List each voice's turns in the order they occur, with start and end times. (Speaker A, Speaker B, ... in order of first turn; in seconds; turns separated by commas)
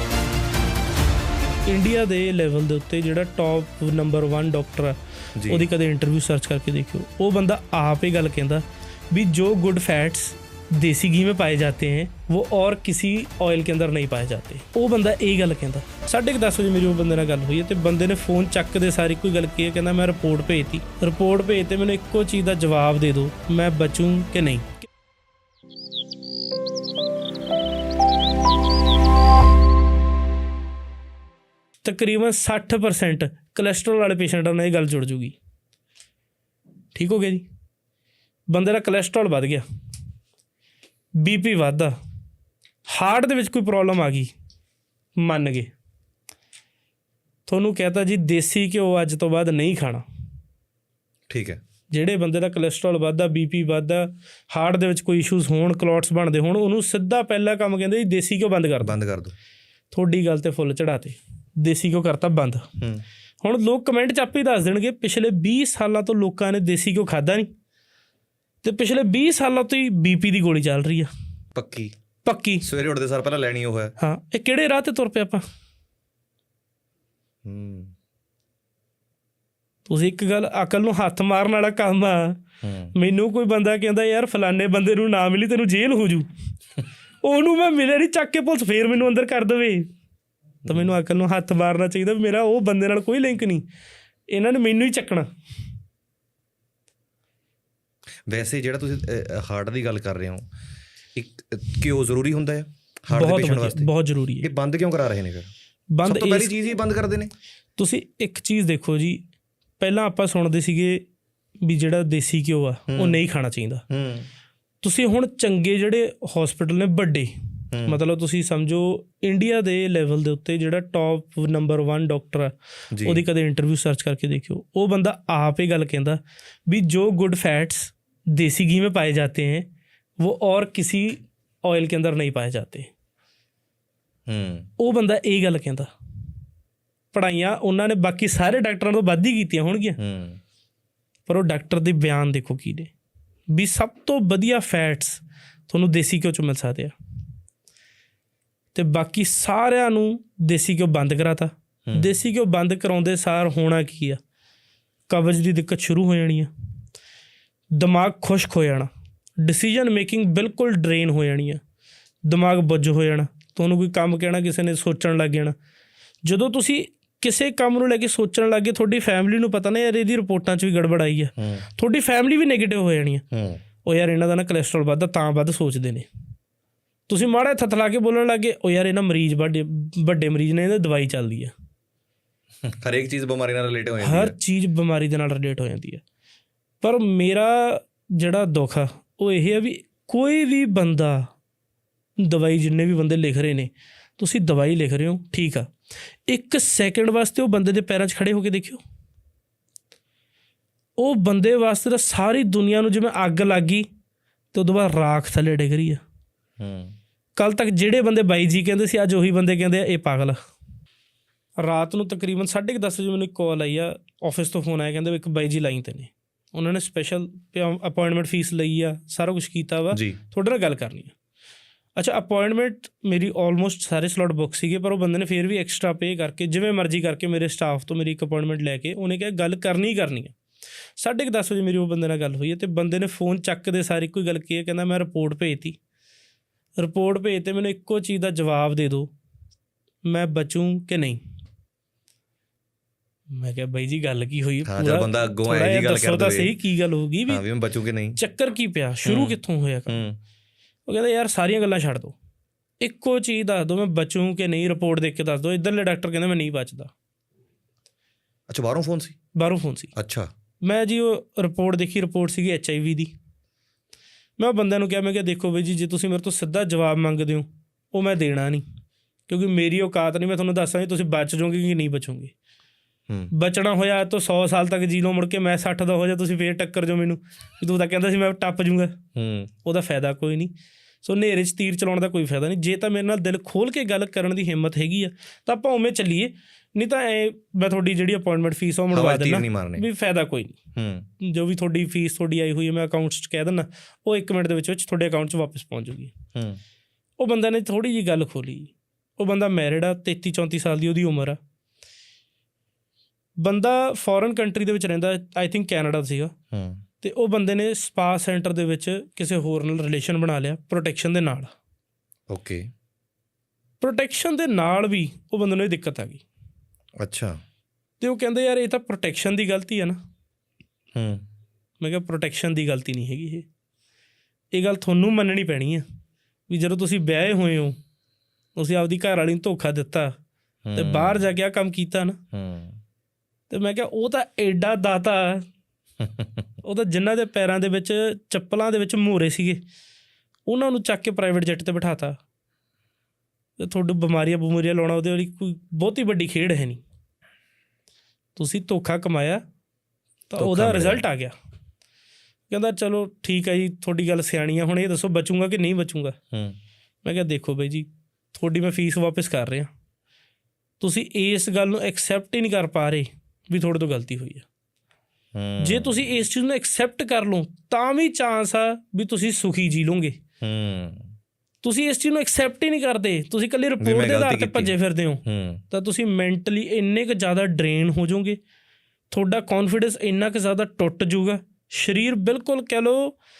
Speaker A: 1.7-24.7, Speaker B: 5.4-5.7, Speaker A: 31.8-35.4, Speaker A: 36.9-37.5, Speaker A: 38.5-39.6, Speaker A: 41.2-42.0, Speaker A: 42.9-44.3, Speaker A: 45.2-45.7, Speaker A: 47.5-50.0, Speaker B: 51.3-51.6, Speaker A: 51.9-59.0, Speaker B: 58.8-59.3, Speaker A: 59.9-62.7, Speaker B: 62.8-63.0, Speaker A: 63.4-67.5, Speaker A: 68.6-71.1, Speaker B: 71.5-71.9, Speaker A: 72.2-72.6, Speaker B: 72.6-73.9, Speaker A: 74.0-75.4, Speaker B: 77.4-77.9, Speaker A: 79.8-82.4, Speaker B: 82.6-82.9, Speaker A: 82.9-86.3, Speaker A: 87.2-89.9, Speaker A: 90.7-93.7, Speaker A: 94.3-95.3, Speaker B: 98.3-100.5, Speaker B: 101.1-105.5, Speaker A: 103.1-104.5, Speaker A: 105.9-106.5, Speaker B: 106.0-107.3, Speaker A: 107.8-109.2, Speaker A: 109.8-111.0, Speaker A: 111.6-113.8, Speaker B: 112.9-113.2, Speaker B: 113.9-114.3, Speaker A: 114.8-129.7, Speaker B: 117.7-118.0, Speaker B: 122.9-123.2, Speaker A: 130.2-132.9, Speaker B: 134.3-134.7, Speaker A: 134.8-135.9, Speaker A: 137.1-140.0, Speaker B: 140.0-140.4, Speaker A: 141.3-142.9, Speaker A: 143.5-146.9, Speaker A: 148.7-154.2, Speaker A: 155.1-156.5, Speaker A: 157.8-158.9, Speaker A: 159.4-161.6, Speaker A: 162.2-165.5, Speaker A: 166.2-173.2, Speaker B: 171.4-171.7, Speaker B: 173.3-173.6, Speaker A: 173.8-176.1, Speaker A: 177.1-181.5, Speaker B: 182.6-184.3, Speaker A: 184.0-186.0, Speaker A: 186.8-191.3, Speaker A: 192.2-195.7, Speaker A: 196.3-198.8, Speaker A: 201.0-203.9, Speaker A: 204.5-206.0, Speaker B: 206.6-206.9, Speaker A: 207.4-210.4, Speaker A: 211.6-221.1, Speaker B: 219.9-220.2, Speaker A: 221.9-230.3, Speaker A: 231.0-235.8, Speaker A: 236.8-239.1, Speaker A: 240.1-241.2, Speaker A: 243.3-247.4, Speaker B: 244.6-246.6, Speaker B: 247.3-248.2, Speaker A: 248.2-250.0, Speaker B: 249.0-250.2, Speaker A: 250.9-252.2, Speaker A: 252.8-256.9, Speaker B: 258.5-259.2, Speaker A: 259.3-259.9, Speaker B: 259.9-260.3, Speaker A: 260.6-263.1, Speaker A: 264.4-268.6, Speaker A: 269.3-272.3, Speaker A: 273.3-279.0, Speaker B: 279.1-279.5, Speaker A: 279.6-290.6, Speaker B: 288.9-289.9, Speaker B: 290.7-291.1, Speaker A: 291.2-296.1, Speaker B: 296.3-296.6, Speaker A: 297.2-301.4, Speaker A: 303.4-306.3, Speaker B: 306.5-306.8, Speaker A: 307.0-311.5, Speaker B: 312.3-312.7, Speaker A: 313.8-316.2, Speaker B: 317.0-317.4, Speaker A: 318.0-320.0, Speaker B: 320.9-321.2, Speaker A: 321.8-323.4, Speaker A: 324.5-325.8, Speaker A: 326.5-327.8, Speaker A: 328.6-330.1, Speaker B: 330.6-331.3, Speaker A: 330.7-332.2, Speaker B: 332.3-332.8, Speaker A: 333.5-335.4, Speaker B: 336.0-336.4, Speaker A: 336.6-339.6, Speaker A: 340.5-342.2, Speaker A: 343.6-346.8, Speaker A: 348.4-349.4, Speaker A: 350.3-351.3, Speaker B: 350.4-351.0, Speaker A: 352.5-356.1, Speaker B: 356.3-356.6, Speaker A: 357.0-359.7, Speaker A: 360.8-364.4, Speaker B: 365.3-366.1, Speaker A: 365.6-370.2, Speaker B: 370.4-371.1, Speaker A: 371.6-378.4, Speaker B: 373.8-375.6, Speaker A: 379.1-383.1